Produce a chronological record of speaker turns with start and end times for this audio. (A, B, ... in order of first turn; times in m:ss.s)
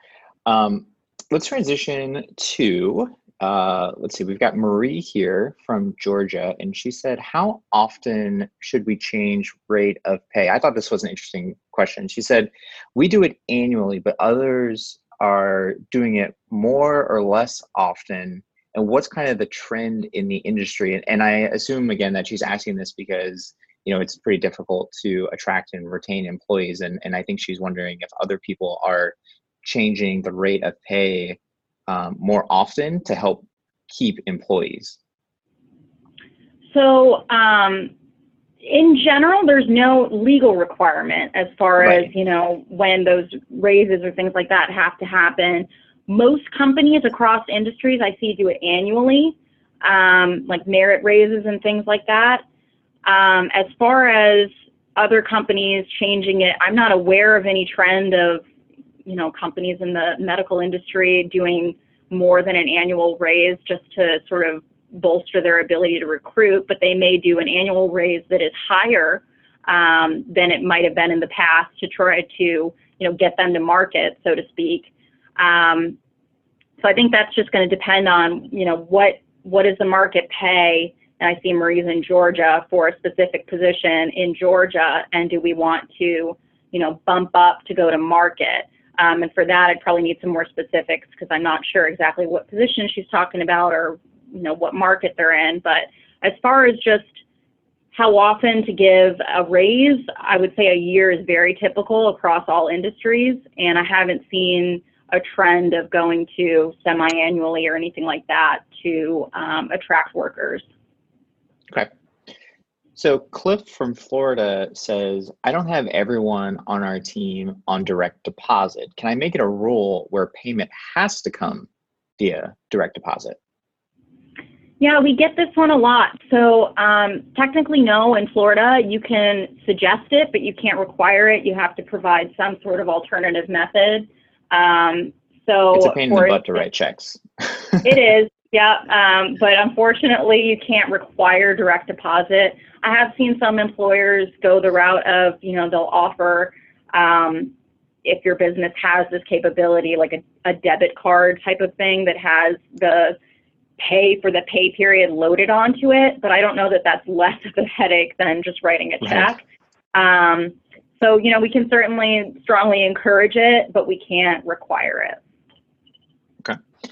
0:00.4-0:35.0 A
0:36.7-0:37.9 B
0:38.6-0:52.4 B
0:41.8-0:42.1 A
0:53.0-0:58.4 B
0:59.0-1:16.0 B
1:16.8-1:37.2 B
1:37.9-1:50.6 B
1:53.0-2:01.7 A
2:02.2-2:03.4 A
2:04.8-2:16.6 B
2:15.7-2:18.0 A
2:17.8-2:27.5 B
2:28.0-2:33.2 B
2:33.8-2:45.2 B
2:39.0-2:39.3 A